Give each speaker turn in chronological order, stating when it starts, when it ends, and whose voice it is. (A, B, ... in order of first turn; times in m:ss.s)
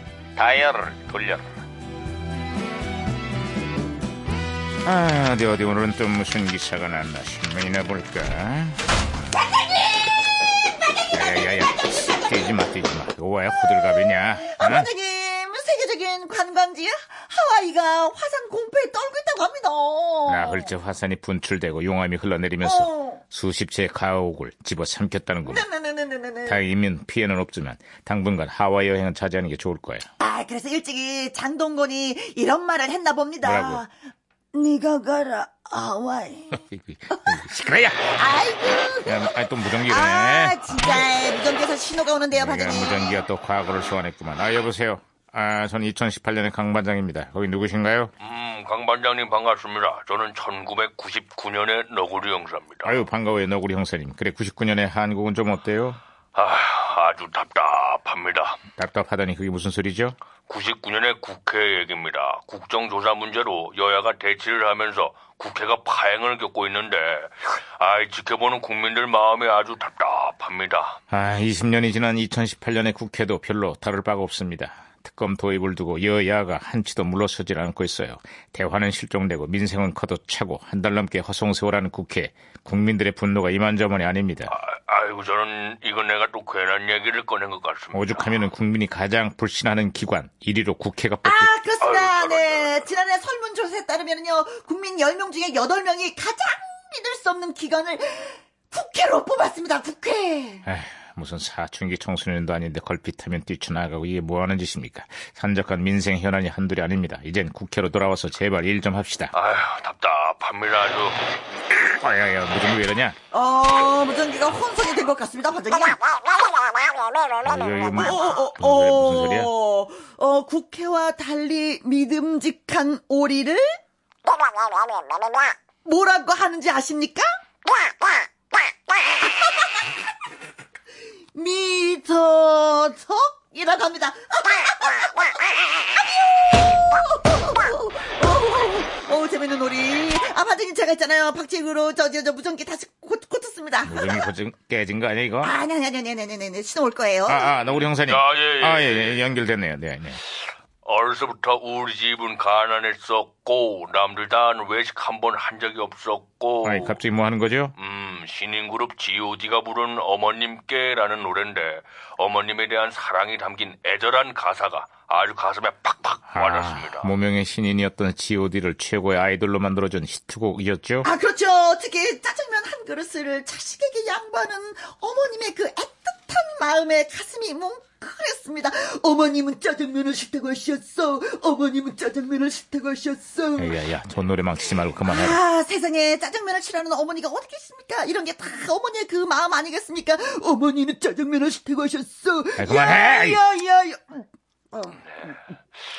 0:00.3-0:01.6 A
0:04.8-0:08.8 A
0:09.3-0:12.4 B
0:11.1-0:14.9 A
0:13.5-0:20.7 B
0:20.2-0:25.6 A
0:22.6-0:23.2 B
0:25.4-0:26.6 B
0:26.4-0:30.0 A
0:30.2-0:33.9 B
0:33.4-0:33.8 A
0:34.5-0:37.4 B
0:36.6-0:38.1 A
0:38.1-0:43.2 B
0:39.0-0:41.0 A
0:42.3-0:48.1 A
0:48.2-0:53.0 C
0:52.8-0:56.0 A
0:56.3-0:58.6 C
0:58.8-1:00.2 A
1:00.5-1:11.0 C
1:11.1-1:24.5 A
1:24.5-1:28.5 C
1:27.9-1:31.5 A
1:31.2-1:40.6 B
1:31.8-1:32.9 C
1:40.6-1:49.3 A
1:49.3-1:51.2 C
1:51.9-1:53.2 A
1:53.3-1:56.1 B
1:57.4-1:59.5 A
1:57.9-2:03.8 B
2:05.8-2:07.3 B
2:09.4-2:09.9 B
2:11.3-2:24.3 B
2:23.8-2:25.6 A
2:25.4-2:27.5 B
2:27.2-2:30.2 A
2:27.5-2:29.2 C
2:30.8-2:37.0 C
2:36.6-2:37.7 A
2:37.8-2:47.1 C
2:46.3-2:51.1 A
2:51.0-3:03.8 B
3:03.6-3:05.4 A
3:05.0-3:15.3 B
3:12.6-3:13.4 A
3:15.1-3:15.4 C